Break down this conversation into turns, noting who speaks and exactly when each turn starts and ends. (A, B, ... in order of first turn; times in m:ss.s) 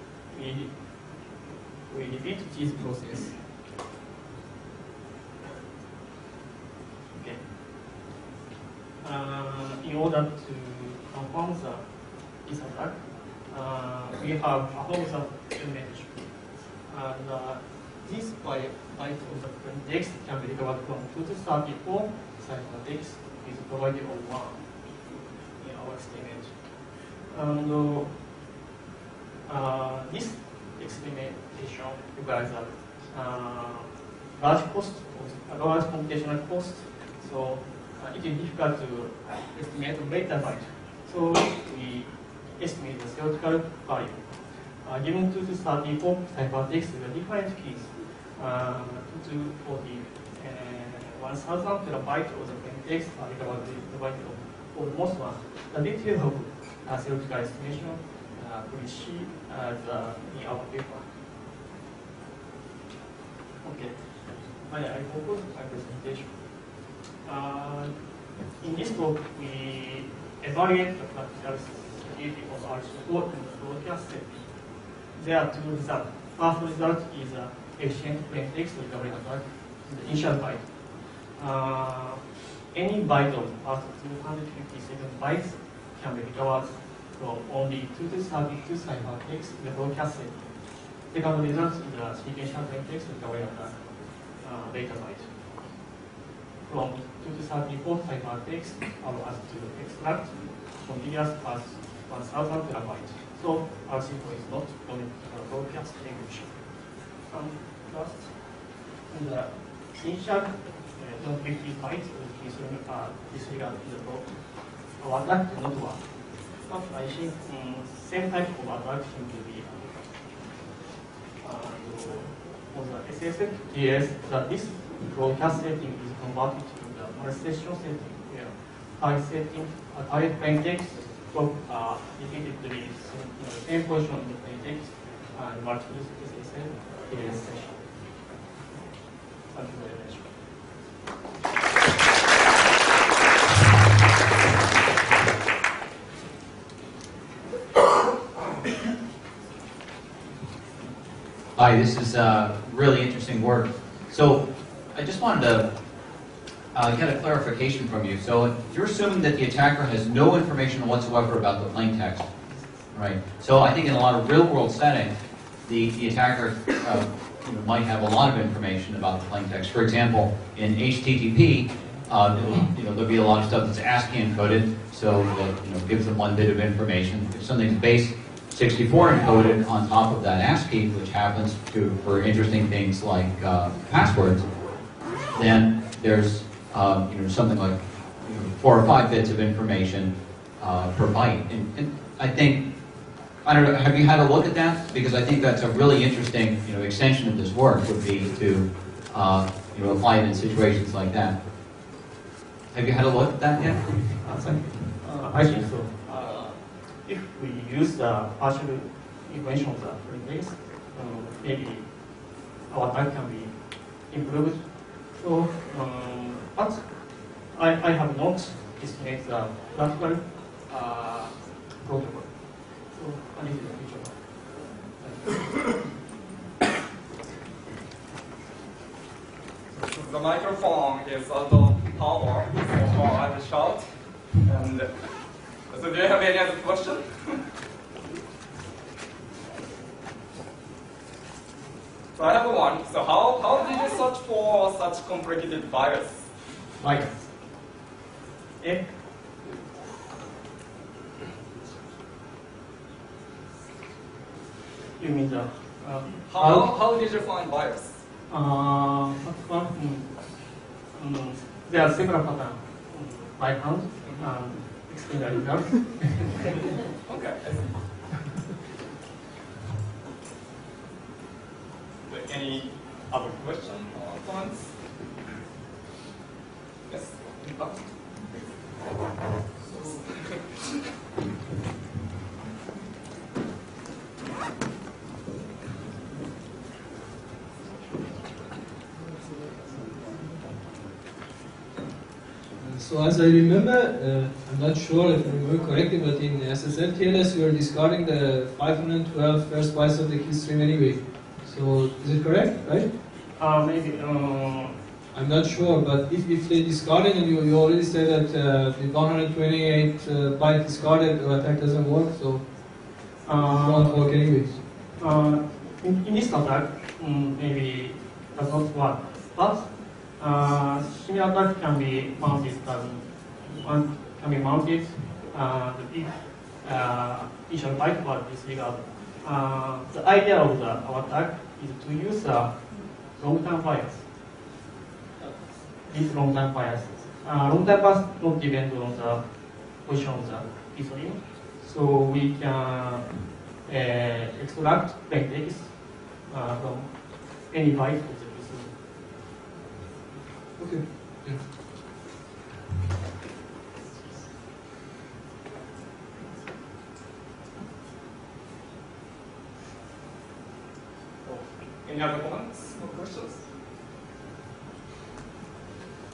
0:00.3-0:00.7 A
0:01.9-0:03.4 A
0:07.1-0:07.4 A
0:09.0-0:11.8 A
0:12.4-0:16.3 A
0:16.9-0:24.7 A
0:25.6-0:26.6 A
0:27.3-0:28.2 A
0:29.4-1:01.1 A
1:03.6-1:06.3 A
1:07.2-1:07.9 A
1:08.6-1:14.5 A
1:15.2-1:20.8 A
1:21.3-1:30.5 A
1:31.1-1:35.4 A
1:36.6-1:46.6 A
1:47.3-1:48.3 A
1:49.1-1:54.4 A
1:54.9-1:56.0 A
1:56.7-1:59.9 A
2:01.4-2:17.9 A
2:19.5-2:20.3 A
2:31.6-2:35.7 B
2:36.7-2:42.3 B
2:42.9-3:04.6 B
3:05.3-3:12.7 B
3:13.4-3:21.4 B
3:22.7-3:24.2 B
3:24.2-3:32.0 A
3:32.7-3:42.3 A
3:42.9-3:44.2 A
3:45.0-3:45.7 A
3:49.8-3:55.0 C
3:55.7-3:57.4 C
4:02.2-4:06.3 C
4:06.8-4:07.3 A
4:08.6-4:08.9 A
4:15.0-4:16.7 A
4:16.3-4:18.0 C
4:18.3-4:20.1 A
4:20.9-4:26.5 A
4:27.1-4:27.8 C
4:32.1-4:34.8 C
4:36.9-4:37.9 C
4:39.6-4:40.6 C
4:52.6-5:02.9 D
5:03.3-5:04.8 A
5:05.1-5:12.6 D
5:13.2-5:14.0 A
5:13.6-5:14.6 D
5:14.9-5:34.0 A
5:35.2-5:39.2 A
5:39.8-5:48.7 A
5:50.6-5:51.4 D
6:01.2-6:03.4 C